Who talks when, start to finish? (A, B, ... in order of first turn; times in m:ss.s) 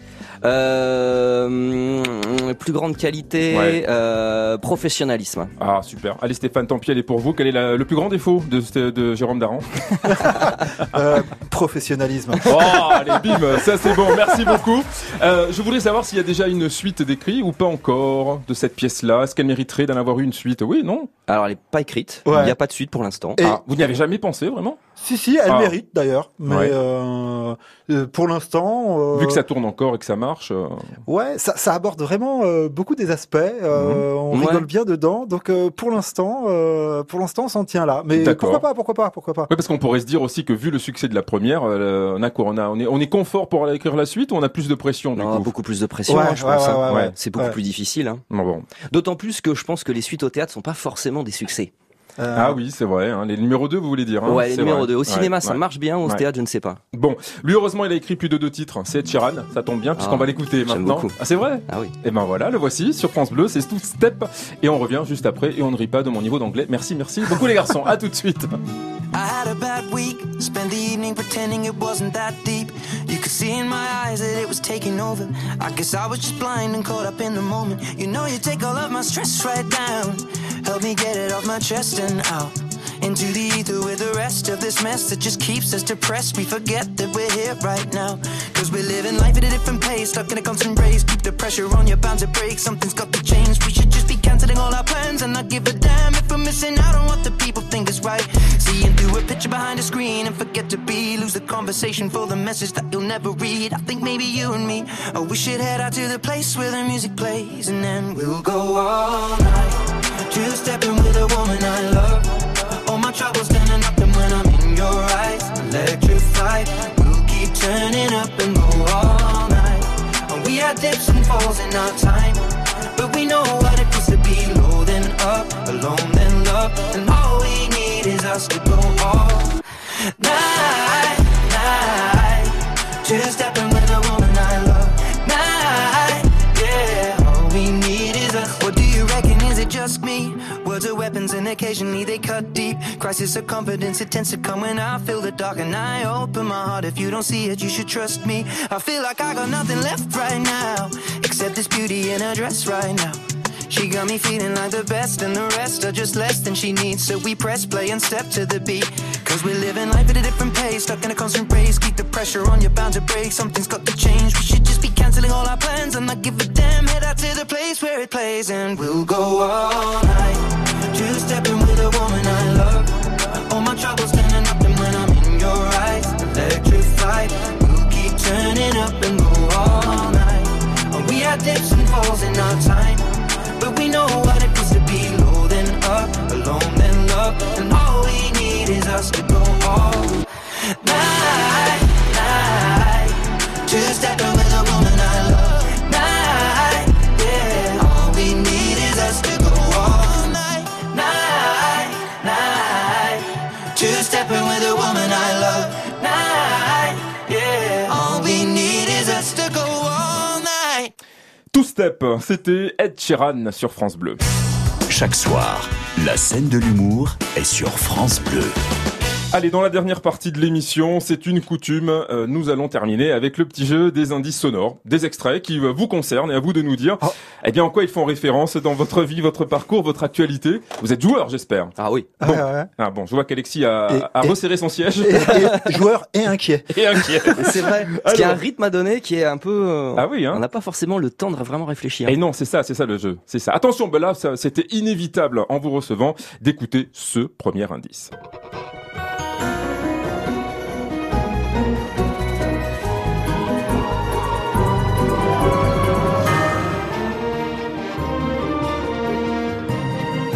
0:00.4-0:05.5 A
0:03.5-0:03.8 B
0:05.6-0:10.3 B
0:10.1-0:13.0 C
0:12.4-0:21.1 B
0:21.3-0:23.4 A
0:22.2-0:22.6 C
0:23.4-0:23.6 C
0:23.4-0:24.8 B
0:25.0-0:29.4 C
0:25.5-0:25.7 B
0:26.5-0:26.7 B
0:29.1-0:30.9 B
0:31.1-0:39.5 C
0:33.7-0:34.0 B
0:34.3-0:34.6 A
0:38.2-0:38.6 B
0:39.5-0:45.5 B
0:45.2-0:48.2 A
0:46.1-0:47.6 C
0:46.9-0:47.1 B
0:48.3-0:48.7 B
0:48.9-0:51.7 A
0:52.2-0:52.6 C
0:52.3-0:56.2 B
0:54.2-0:56.8 A
0:56.9-1:08.6 B
1:00.0-1:01.1 A
1:09.1-2:09.6 D
2:10.2-3:10.2 D
3:10.8-3:30.9 D
3:31.5-3:34.2 B
3:34.9-3:38.6 E
3:39.3-3:55.7 B
3:51.8-3:52.1 A
3:52.2-3:52.7 C
3:53.9-3:54.4 C
3:55.0-3:57.3 C
3:56.7-3:58.4 B
3:57.3-4:02.2 A
4:00.0-4:00.4 B
4:02.0-4:08.1 B